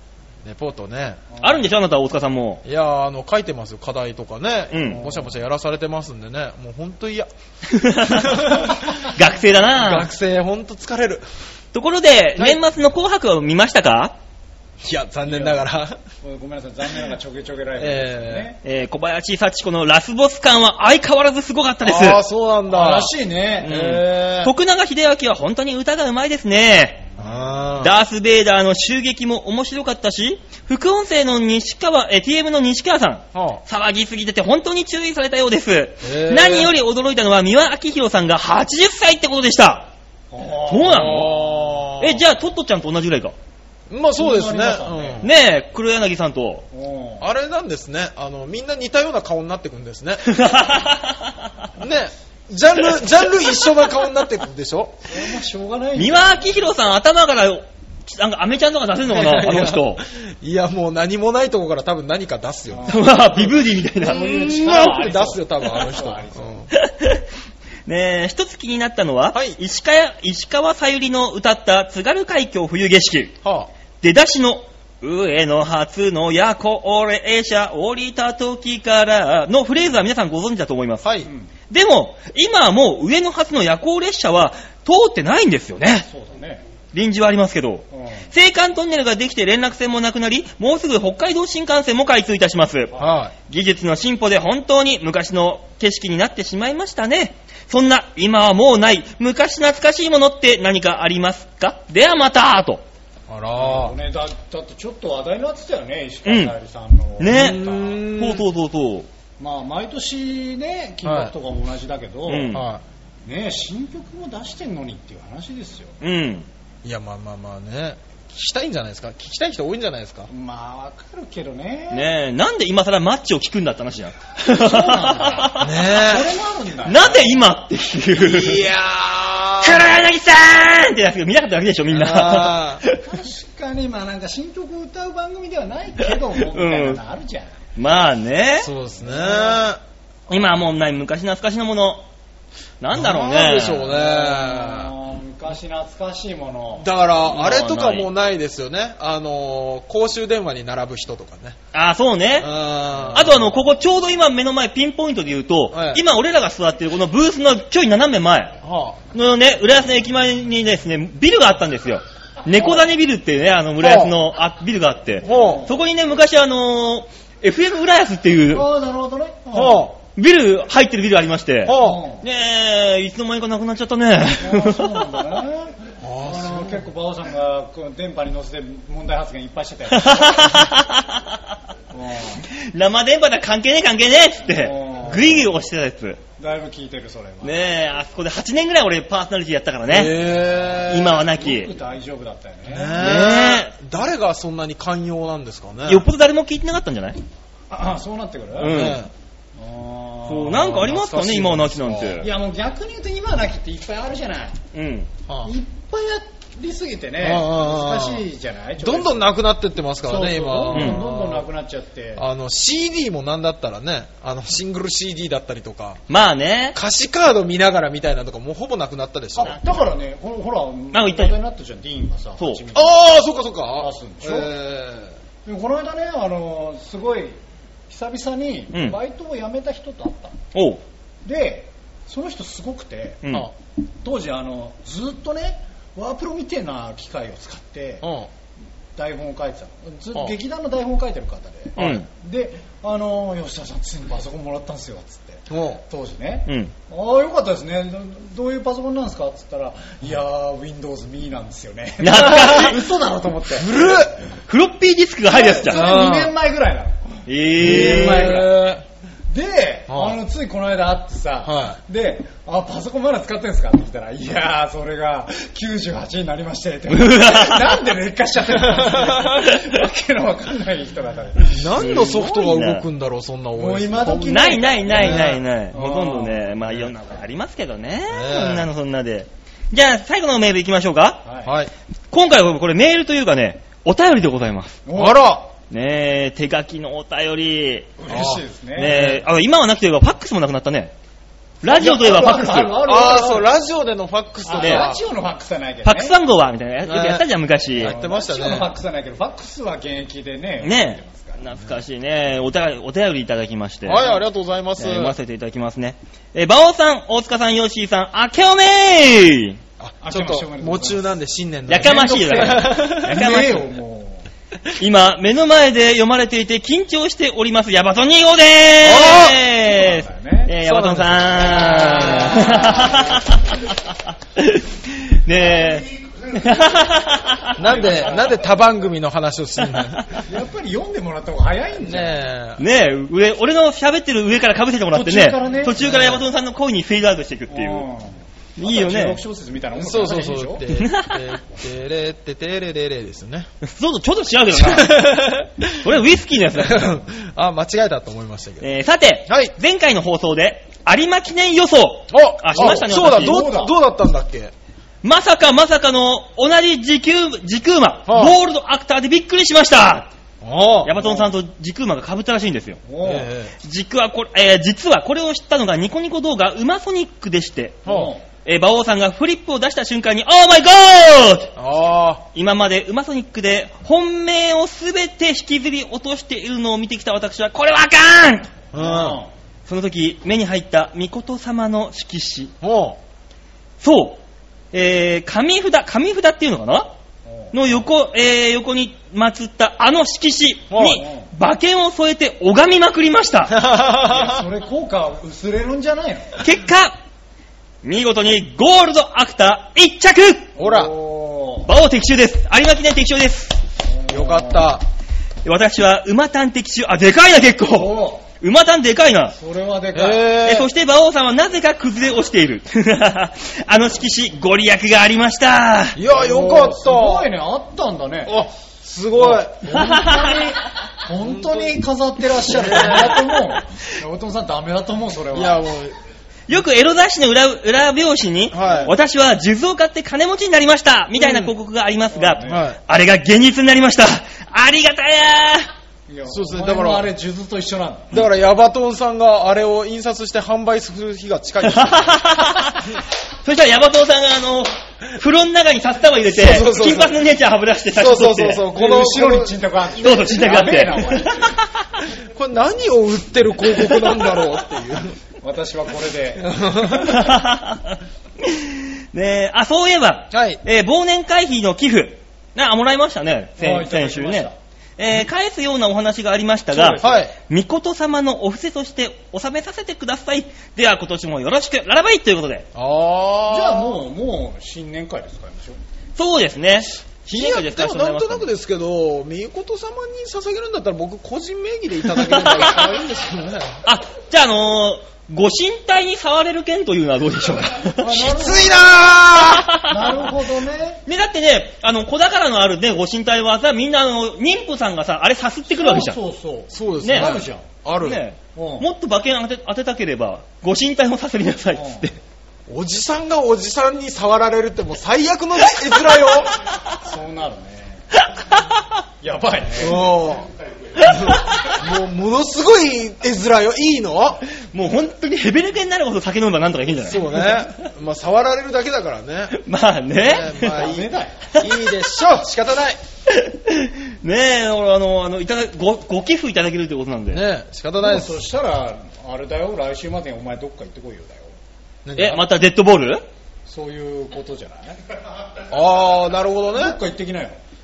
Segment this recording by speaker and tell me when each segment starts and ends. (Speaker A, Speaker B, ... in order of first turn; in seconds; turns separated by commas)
Speaker A: 0.4-1.2, Speaker B: 1.3-1.7, Speaker C: 1.4-2.6, Speaker A: 2.6-7.3, Speaker C: 4.7-5.0, Speaker B: 4.9-5.3, Speaker C: 7.7-10.1, Speaker A: 8.1-8.8, Speaker A: 9.7-11.2, Speaker C: 11.7-14.1, Speaker A: 14.8-16.0, Speaker B: 15.3-15.6, Speaker B: 16.2-18.6, Speaker A: 17.8-18.5, Speaker C: 18.6-22.2, Speaker A: 21.8-23.1, Speaker B: 22.7-24.0, Speaker C: 23.6-27.0, Speaker A: 23.7-24.5, Speaker A: 27.2-27.9, Speaker B: 27.2-27.5, Speaker C: 27.8-39.9, Speaker A: 33.3-33.6, Speaker A: 36.0-36.7, Speaker B: 40.3-41.4, Speaker C: 40.7-41.4, Speaker A: 40.8-42.2, Speaker C: 42.0-43.4, Speaker A: 43.9-45.3, Speaker B: 44.2-45.3, Speaker C: 45.2-46.7, Speaker B: 46.7-47.3, Speaker A: 47.2-50.2, Speaker C: 50.2-51.5, Speaker A: 51.8-55.0, Speaker B: 55.1-56.6, Speaker C: 56.0-60.0, Speaker A: 59.1-62.9, Speaker B: 62.7-66.7, Speaker C: 62.9-64.4, Speaker A: 64.1-66.7, Speaker C: 66.7-67.2, Speaker C: 67.9-73.4, Speaker A: 69.3-69.6, Speaker A: 73.4-73.7, Speaker C: 74.0-81.0, Speaker A: 81.0-81.3, Speaker B: 81.2-81.5, Speaker C: 81.7-86.1, Speaker B: 86.1-86.6, Speaker C: 86.9-92.9, Speaker B: 87.9-88.3, Speaker B: 92.9-93.2, Speaker A: 93.0-93.3, Speaker C: 93.5-102.8, Speaker A: 103.3-104.0, Speaker B: 103.6-108.0, Speaker C: 106.2-106.5, Speaker C: 107.2-109.1, Speaker A: 107.3-108.4, Speaker B: 109.4-112.6, Speaker A: 111.0-111.3, Speaker C: 112.3-112.6, Speaker A: 112.5-112.8, Speaker B: 113.2-116.0, Speaker C: 116.0-116.5, Speaker A: 116.8-120.3, Speaker B: 120.3-122.1, Speaker C: 121.9-125.7, Speaker B: 124.5-127.4, Speaker A: 125.6-126.3, Speaker C: 126.9-128.7, Speaker A: 128.1-129.9, Speaker C: 129.6-133.0, Speaker A: 131.9-132.8, Speaker B: 133.1-137.5, Speaker C: 136.0-137.0, Speaker C: 137.8-138.7, Speaker A: 138.6-139.8, Speaker B: 139.0-139.7, Speaker C: 140.3-142.1, Speaker C: 142.8-143.9, Speaker A: 142.9-144.9, Speaker B: 143.9-146.9, Speaker A: 146.8-151.6, Speaker C: 147.3-148.1, Speaker C: 151.7-152.5, Speaker A: 152.4-153.5, Speaker C: 153.1-158.6, Speaker A: 155.7-156.0, Speaker A: 158.6-159.0, Speaker C: 159.1-168.7, Speaker A: 162.5-162.9, Speaker A: 163.8-164.1, Speaker A: 165.2-165.7, Speaker B: 165.2-165.8, Speaker B: 168.5-169.9, Speaker A: 169.5-169.9, Speaker C: 170.1-175.2, Speaker A: 171.6-172.0, Speaker B: 171.7-172.2, Speaker B: 174.4-180.7, Speaker A: 176.0-176.8, Speaker C: 179.9-181.4, Speaker B: 181.9-182.4, Speaker C: 182.4-186.2, Speaker B: 184.4-185.5, Speaker B: 186.4-187.7, Speaker C: 187.4-190.1, Speaker A: 189.9-191.2, Speaker B: 190.3-193.0, Speaker C: 190.9-191.7, Speaker A: 192.7-196.1, Speaker C: 193.0-193.7, Speaker C: 195.9-197.2, Speaker B: 197.7-198.9, Speaker C: 198.6-199.0, Speaker A: 198.6-199.1, Speaker B: 199.6-200.7, Speaker C: 200.3-202.3, Speaker A: 200.4-202.2, Speaker B: 202.2-204.6, Speaker C: 204.7-205.1, Speaker B: 205.4-209.4, Speaker A: 207.2-208.2, Speaker A: 208.8-211.4, Speaker B: 210.1-212.2, Speaker C: 210.7-211.0, Speaker A: 212.2-216.0, Speaker C: 216.1-216.8, Speaker A: 216.7-219.5, Speaker B: 219.4-223.1, Speaker C: 219.4-219.7, Speaker C: 220.9-221.4, Speaker A: 222.7-225.1, Speaker B: 223.8-224.5, Speaker B: 225.4-227.4, Speaker B: 227.9-230.4, Speaker C: 228.7-229.0, Speaker C: 230.5-230.8, Speaker B: 231.2-233.2, Speaker C: 233.2-233.5, Speaker B: 234.0-238.1, Speaker A: 238.0-238.3, Speaker B: 238.9-254.2, Speaker C: 241.8-242.1, Speaker A: 245.5-245.8, Speaker C: 252.0-252.8, Speaker A: 253.5-254.2, Speaker C: 254.5-255.9, Speaker B: 255.3-258.6, Speaker A: 255.7-256.3, Speaker C: 257.3-258.5, Speaker A: 257.6-258.8, Speaker B: 259.3-271.9, Speaker A: 259.9-260.2, Speaker A: 261.4-261.8, Speaker C: 266.9-267.8, Speaker A: 268.7-269.3, Speaker A: 271.5-275.4, Speaker C: 271.8-272.8, Speaker B: 273.6-276.5, Speaker C: 274.2-281.2, Speaker A: 278.1-278.7, Speaker B: 281.2-281.5, Speaker A: 281.4-281.7, Speaker C: 282.1-284.8, Speaker B: 284.9-285.4, Speaker A: 284.9-285.4, Speaker C: 285.7-288.0, Speaker B: 288.0-289.0, Speaker A: 288.1-289.2, Speaker C: 288.8-290.9, Speaker C: 291.6-292.7, Speaker B: 291.7-293.5, Speaker A: 292.9-295.0, Speaker B: 294.4-296.2, Speaker C: 294.6-294.9, Speaker C: 295.9-297.9, Speaker A: 296.9-297.3, Speaker A: 297.8-298.7, Speaker B: 297.8-301.4, Speaker C: 300.6-304.0, Speaker A: 303.8-305.1, Speaker B: 303.9-304.2, Speaker C: 304.8-309.6, Speaker A: 309.8-313.3, Speaker B: 310.0-311.2, Speaker C: 311.7-313.6, Speaker B: 311.7-314.3, Speaker C: 314.8-323.8, Speaker A: 318.8-319.4, Speaker B: 319.2-320.6, Speaker A: 320.6-322.9, Speaker B: 321.5-323.2, Speaker C: 324.4-327.9, Speaker A: 327.6-330.3, Speaker B: 327.6-328.5, Speaker B: 330.3-332.2, Speaker A: 331.8-332.6, Speaker C: 332.6-337.9, Speaker B: 334.9-336.0, Speaker A: 335.8-336.2, Speaker B: 337.5-340.6, Speaker C: 338.6-339.2, Speaker A: 339.8-343.5, Speaker C: 340.7-341.2, Speaker C: 343.6-345.2, Speaker A: 344.5-345.9, Speaker C: 345.8-347.0, Speaker A: 346.5-348.7, Speaker C: 348.6-353.4, Speaker A: 349.3-349.5, Speaker A: 352.1-354.5, Speaker B: 352.6-353.7, Speaker C: 355.0-360.1, Speaker A: 358.1-358.4, Speaker A: 360.4-360.9, Speaker C: 360.8-362.8, Speaker B: 361.0-361.3, Speaker B: 362.9-363.3, Speaker A: 363.0-363.5, Speaker C: 363.6-367.8, Speaker A: 367.9-368.1, Speaker B: 367.9-368.2, Speaker C: 368.4-371.5, Speaker A: 371.6-372.3, Speaker C: 372.3-378.5, Speaker A: 378.7-379.2, Speaker B: 378.7-379.3, Speaker C: 379.7-382.5, Speaker A: 382.6-383.0, Speaker C: 383.8-384.2, Speaker C: 384.7-386.9, Speaker B: 387.2-387.8, Speaker C: 387.5-393.6, Speaker A: 390.7-391.0, Speaker B: 390.9-391.3, Speaker A: 393.5-394.4, Speaker B: 394.0-396.4, Speaker C: 396.4-397.0, Speaker C: 397.8-400.5, Speaker B: 400.6-401.7, Speaker A: 400.6-400.9, Speaker C: 401.6-403.6, Speaker B: 403.9-404.8, Speaker A: 404.1-404.8, Speaker C: 405.4-409.4, Speaker B: 407.7-408.2, Speaker B: 409.4-410.4, Speaker A: 409.9-410.7, Speaker C: 410.4-416.0, Speaker A: 415.9-417.3, Speaker B: 416.0-418.4, Speaker A: 418.3-419.6, Speaker B: 419.1-425.7, Speaker C: 419.7-420.5, Speaker A: 421.2-421.7, Speaker A: 422.4-423.3, Speaker A: 425.3-425.9, Speaker C: 426.5-435.7, Speaker A: 428.5-428.9, Speaker B: 428.6-428.9, Speaker A: 431.1-431.6, Speaker B: 432.1-432.7, Speaker A: 432.4-432.8, Speaker B: 436.1-438.2, Speaker A: 436.3-437.1, Speaker A: 438.1-442.2, Speaker C: 441.6-448.7, Speaker A: 446.3-447.2, Speaker A: 447.9-451.1, Speaker B: 448.7-451.6, Speaker C: 450.0-451.6, Speaker A: 452.3-455.2, Speaker C: 453.6-454.4, Speaker B: 455.4-456.6, Speaker A: 456.4-457.3, Speaker C: 456.9-472.7, Speaker A: 460.3-460.6, Speaker B: 463.6-464.6, Speaker B: 466.7-467.2, Speaker A: 467.0-467.3, Speaker A: 472.7-474.0, Speaker B: 473.5-475.8, Speaker C: 476.2-478.5, Speaker A: 477.3-483.8, Speaker C: 482.1-482.9, Speaker C: 483.9-488.2, Speaker B: 487.9-491.0, Speaker A: 488.0-489.7, Speaker C: 489.4-490.3, Speaker C: 491.1-496.2, Speaker B: 495.7-497.7, Speaker A: 496.7-498.2, Speaker C: 497.0-497.3, Speaker C: 498.0-502.2, Speaker B: 498.6-498.9, Speaker B: 501.7-502.1, Speaker A: 502.7-506.6, Speaker B: 507.0-508.1, Speaker C: 508.2-508.6, Speaker B: 509.2-510.1, Speaker A: 509.8-514.5, Speaker C: 511.0-511.7, Speaker C: 514.5-517.8, Speaker A: 517.0-519.6, Speaker C: 519.5-520.8, Speaker A: 520.1-523.0, Speaker B: 520.6-521.6, Speaker C: 523.3-527.4, Speaker A: 527.3-528.4, Speaker B: 528.0-531.5, Speaker A: 532.0-532.4, Speaker C: 532.2-533.2, Speaker B: 533.7-535.2, Speaker A: 535.7-537.0, Speaker B: 536.7-537.6